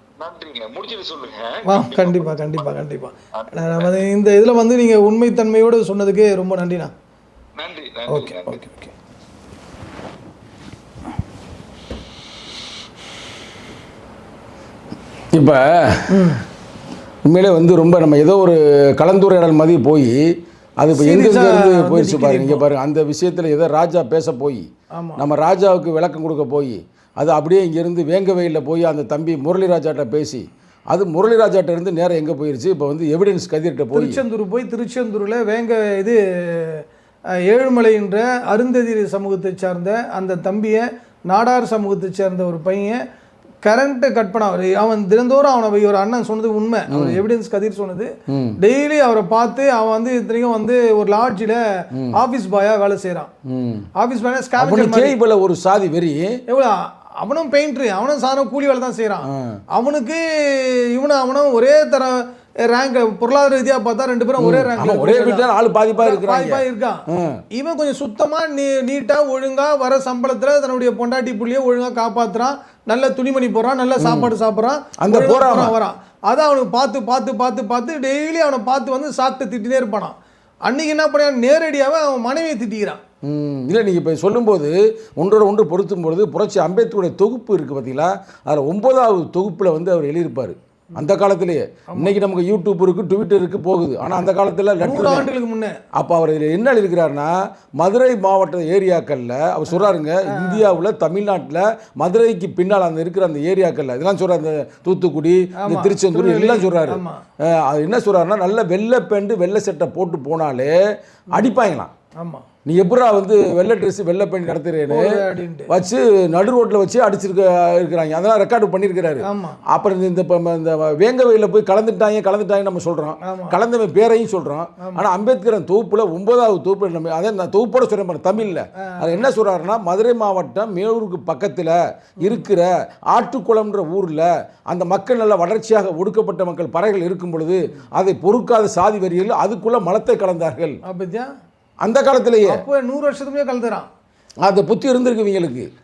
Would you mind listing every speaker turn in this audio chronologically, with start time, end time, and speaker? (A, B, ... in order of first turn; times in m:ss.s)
0:00.2-0:02.7 A
0:01.7-0:06.9 B
0:03.3-0:04.0 A
0:07.6-0:08.6 A
0:08.1-0:08.9 B
0:15.3-0:16.3 C
0:16.1-0:16.4 B
0:17.2-0:20.2 C
0:20.8-0:34.2 C
0:20.9-0:22.6 B
0:25.0-0:25.2 B
0:33.9-0:36.8 B
0:37.5-0:43.0 B
0:43.6-0:53.3 B
0:46.9-0:47.2 C
0:48.3-0:48.6 C
0:53.5-0:53.9 C
0:54.0-0:55.1 B
0:54.6-0:56.4 C
0:56.5-1:05.5 B
0:59.2-0:59.6 C
1:04.4-1:07.4 C
1:06.0-1:20.1 B
1:14.0-1:14.3 C
1:15.0-1:15.8 C
1:20.7-1:23.0 B
1:23.2-1:35.3 C
1:34.8-1:35.8 B
1:36.0-1:50.8 C
1:39.7-1:40.6 B
1:45.6-1:47.2 B
1:51.3-1:51.9 C
1:52.2-1:52.4 B
1:52.6-1:55.1 C
1:54.9-1:55.7 B
1:55.7-2:20.8 C
1:59.2-1:59.6 B
2:03.2-2:03.6 B
2:04.8-2:05.1 B
2:08.8-2:09.2 B
2:20.9-2:21.3 B
2:21.8-2:22.6 C
2:22.4-2:23.9 B
2:24.4-2:25.7 C